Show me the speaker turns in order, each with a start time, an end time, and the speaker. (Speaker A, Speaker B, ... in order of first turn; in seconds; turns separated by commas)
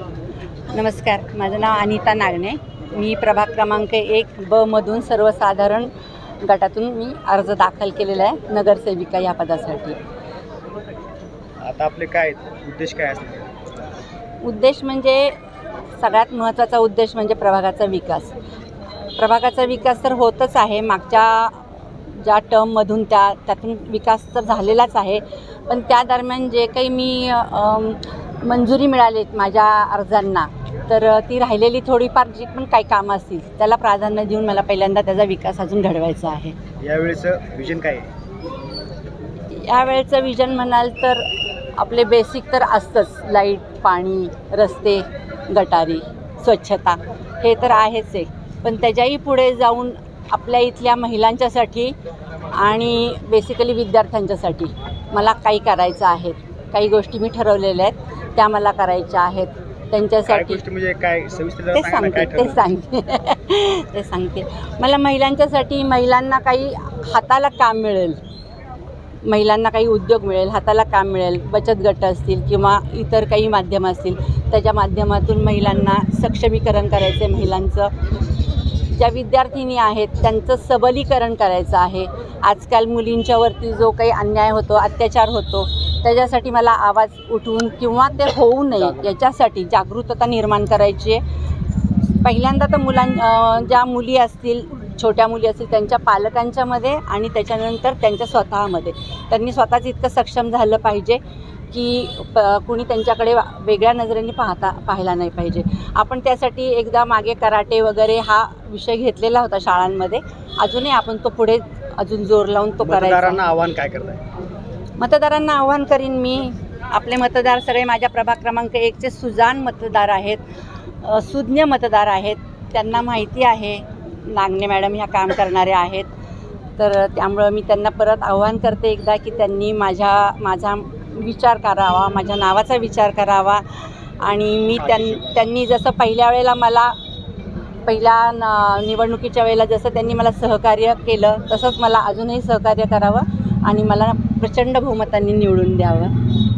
Speaker A: 0.7-10.0, Speaker B: 11.6-13.5, Speaker A: 14.4-15.3, Speaker A: 16.0-18.3, Speaker A: 19.1-36.5, Speaker B: 36.8-38.1, Speaker A: 39.5-51.9, Speaker A: 52.5-60.6, Speaker B: 60.2-62.7, Speaker A: 61.7-68.2, Speaker A: 69.2-77.9, Speaker A: 78.9-91.2, Speaker A: 92.2-113.4, Speaker B: 112.8-114.2, Speaker A: 115.0-120.4, Speaker A: 121.0-126.1, Speaker A: 126.8-136.9, Speaker B: 134.8-135.4, Speaker A: 137.9-146.1